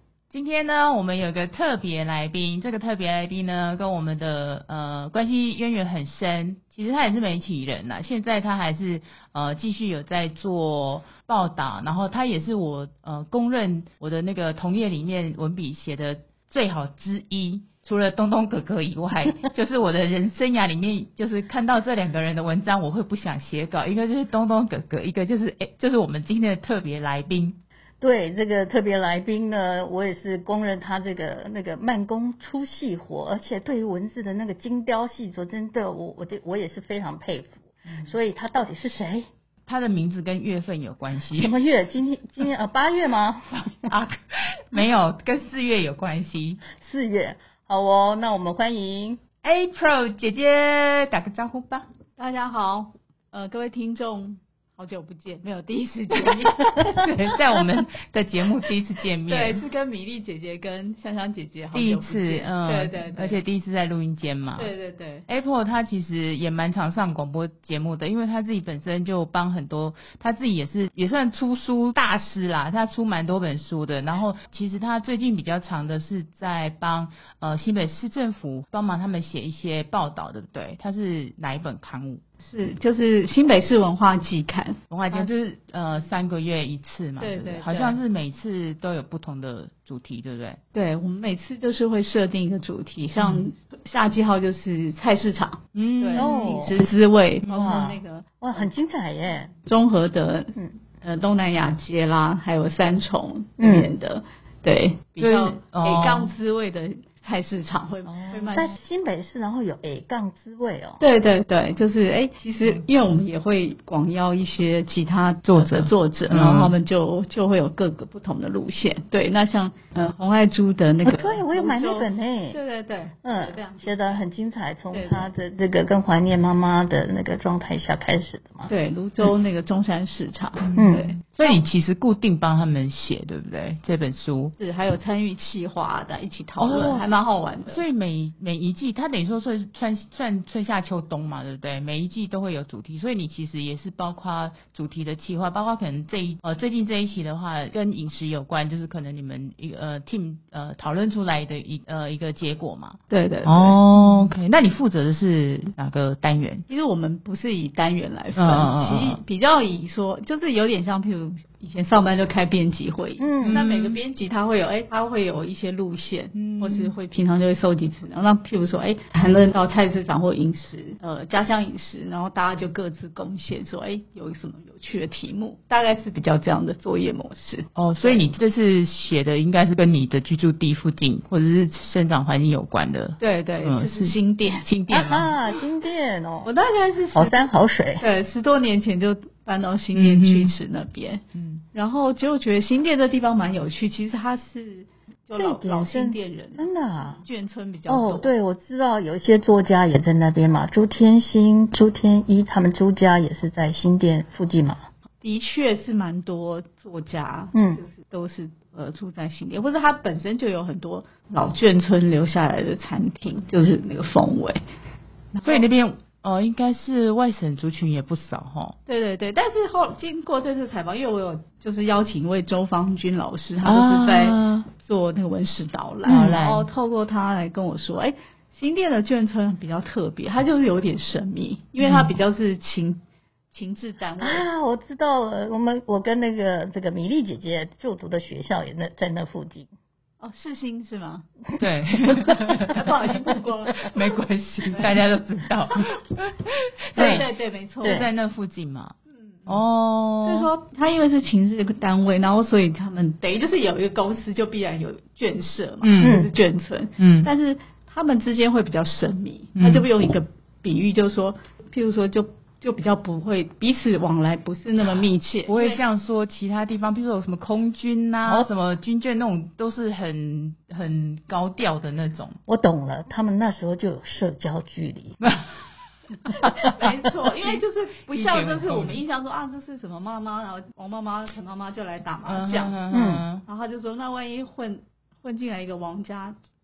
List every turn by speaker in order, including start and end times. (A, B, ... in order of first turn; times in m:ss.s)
0:00.3-0:27.6 A
0:28.0-0:39.3 B
0:39.7-0:41.5 A
0:41.3-0:43.9 B
0:43.9-0:46.6 A
0:46.8-0:49.2 B
0:49.4-0:51.9 A
0:52.2-0:57.4 C
0:56.9-0:59.6 A
0:59.3-1:03.4 C
1:01.7-1:04.7 A
1:04.6-1:05.2 C
1:05.3-1:22.2 A
1:22.4-1:25.3 C
1:24.9-1:30.6 A
1:27.2-1:28.0 C
1:30.7-1:38.7 C
1:33.2-1:33.4 A
1:35.7-1:36.3 A
1:36.2-1:36.8 B
1:37.5-1:39.5 B
1:39.5-1:48.8 C
1:43.6-1:43.9 B
1:45.2-1:46.3 A
1:48.0-1:48.5 A
1:48.5-1:51.0 B
1:51.0-2:04.2 C
1:55.4-1:56.7 A
2:01.0-2:02.6 B
2:03.2-2:08.7 B
2:04.9-2:05.3 C
2:08.7-2:11.6 C
2:10.6-2:14.5 A
2:10.8-2:11.1 B
2:14.6-2:17.8 C
2:16.6-2:17.0 A
2:17.6-2:36.6 A
2:33.1-2:33.8 C
2:36.7-2:58.3 C
2:38.4-2:39.2 A
2:43.2-2:43.6 B
2:43.4-2:44.0 A
2:46.3-2:46.9 A
2:57.8-3:04.2 A
3:03.2-3:04.7 C
3:04.7-3:05.3 A
3:04.9-3:06.5 B
3:06.4-3:07.5 C
3:07.1-3:08.0 B
3:08.0-3:11.2 C
3:09.9-3:10.5 A
3:11.3-3:11.6 A
3:11.7-3:18.3 C
3:15.4-3:17.2 B
3:17.9-3:24.9 B
3:25.2-3:34.6 C
3:27.5-3:27.8 B
3:35.3-3:35.6 C
3:35.4-3:38.8 A
3:38.8-3:53.0 C
3:43.6-3:44.6 A
3:46.0-3:46.7 A
3:46.1-3:46.4 B
3:51.8-3:52.2 A
3:53.5-3:54.4 C
3:54.2-3:59.7 B
4:00.2-4:01.2 C
4:01.6-4:03.0 A
4:02.5-4:05.0 C
4:03.8-4:07.3 A
4:06.9-4:08.1 C
4:07.0-4:07.2 B
4:07.8-4:08.1 B
4:07.8-4:08.9 A
4:09.1-4:09.6 C
4:09.5-4:10.5 A
4:10.2-4:25.8 C
4:15.8-4:16.2 A
4:16.0-4:16.3 B
4:17.0-4:17.3 A
4:19.6-4:19.8 A
4:24.8-4:32.4 A
4:32.5-4:35.2 B
4:35.2-4:35.6 A
4:36.2-4:42.8 C
4:36.4-4:36.8 A
4:38.1-4:39.0 A
4:42.2-4:43.4 A
4:42.9-4:43.2 B
4:43.4-4:46.4 C